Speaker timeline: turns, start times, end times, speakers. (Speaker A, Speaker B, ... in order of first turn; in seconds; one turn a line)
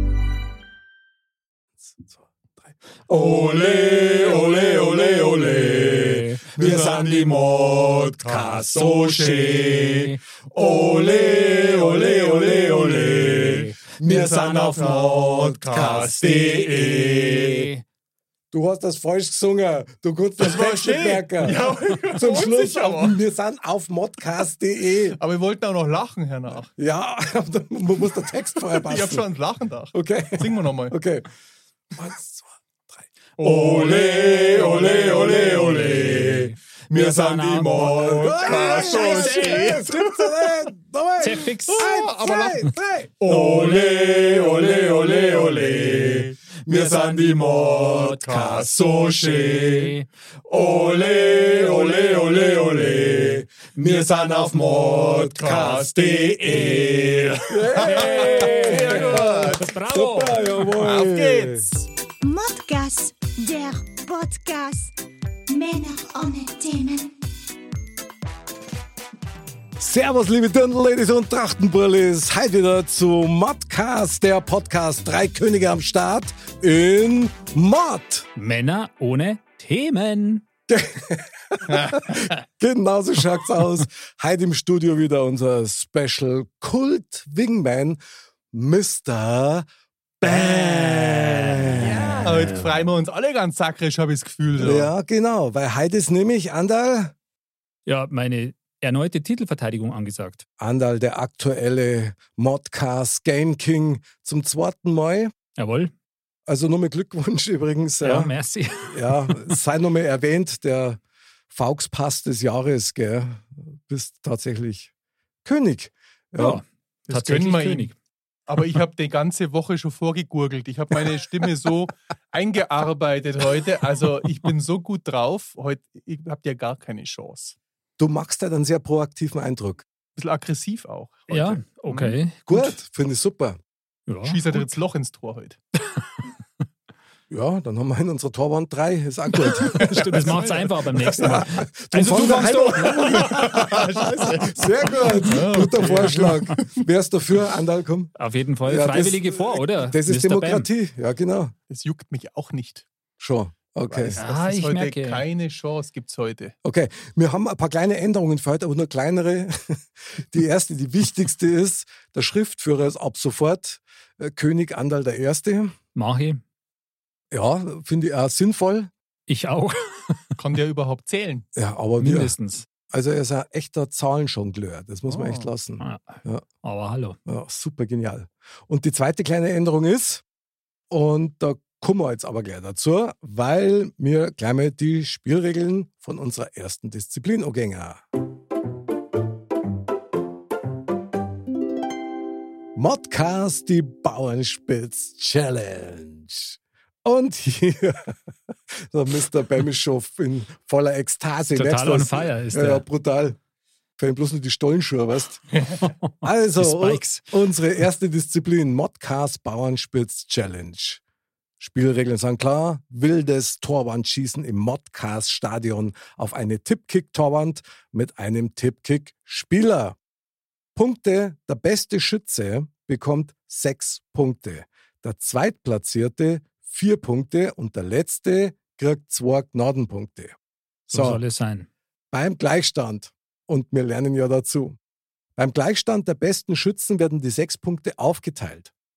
Speaker A: 1.8-10.0
Speaker B: 3.1-17.6
Speaker C: 6.0-6.5
Speaker C: 9.9-10.2
Speaker A: 10.5-17.5
Speaker C: 13.3-14.8
Speaker C: 16.9-17.8
Speaker A: 18.5-25.2
Speaker B: 20.4-23.2
Speaker B: 25.2-26.7
Speaker A: 26.8-29.2
Speaker B: 28.6-30.9
Speaker A: 29.9-31.3
Speaker A: 31.9-36.4
Speaker B: 33.4-40.5
Speaker C: 35.6-38.0
Speaker A: 37.8-49.7
Speaker C: 38.6-39.8
Speaker C: 41.2-41.9
Speaker B: 41.7-49.8
Speaker C: 46.7-47.9
Speaker C: 49.6-50.1
Speaker A: 50.5-56.1
Speaker B: 50.8-53.3
Speaker C: 53.8-54.3
Speaker B: 54.0-59.7
Speaker C: 55.4-60.6
Speaker A: 57.5-61.6
Speaker B: 60.6-61.9
Speaker D: 62.2-64.9
Speaker D: 65.5-67.2
Speaker A: 69.8-78.3
Speaker C: 78.3-80.4
Speaker A: 80.7-88.0
Speaker B: 81.7-82.0
Speaker A: 88.5-89.7
Speaker A: 90.2-92.6
Speaker C: 90.2-92.6
Speaker B: 91.8-94.9
Speaker A: 94.5-97.1
Speaker C: 97.8-100.4
Speaker A: 100.6-105.3
Speaker C: 105.6-105.9
Speaker A: 106.5-111.0
Speaker C: 108.0-109.6
Speaker A: 111.5-114.9
Speaker A: 115.4-116.6
Speaker C: 116.4-117.9
Speaker B: 117.1-117.9
Speaker B: 118.5-127.5
Speaker A: 128.0-129.8
Speaker B: 130.2-132.2
Speaker C: 131.3-132.8
Speaker A: 132.5-133.6
Speaker C: 134.1-134.7
Speaker B: 134.2-135.6
Speaker A: 137.3-140.4
Speaker C: 139.6-143.5
Speaker B: 140.1-140.7
Speaker A: 141.0-148.1
Speaker B: 142.1-146.8
Speaker C: 148.2-150.7
Speaker A: 148.6-151.5
Speaker B: 151.7-152.8
Speaker A: 153.2-154.2
Speaker B: 153.9-156.5
Speaker C: 154.2-155.2
Speaker A: 156.6-165.8
Speaker C: 165.9-166.4
Speaker A: 167.3-168.9
Speaker C: 169.3-170.2
Speaker B: 170.4-171.4
Speaker A: 171.5-172.3
Speaker C: 172.0-172.7
Speaker A: 172.9-176.4
Speaker B: 175.1-175.5
Speaker C: 175.8-177.2
Speaker A: 177.2-180.2
Speaker A: 180.9-188.0
Speaker A: 192.8-198.1
Speaker A: 198.7-203.4
Speaker C: 201.5-202.8
Speaker A: 204.0-205.4
Speaker C: 205.9-207.2
Speaker A: 206.2-211.0
Speaker A: 211.6-220.0
Speaker A: 220.8-230.3
Speaker A: 230.9-231.2
Speaker C: 230.9-231.7
Speaker A: 232.1-234.8
Speaker A: 235.4-238.7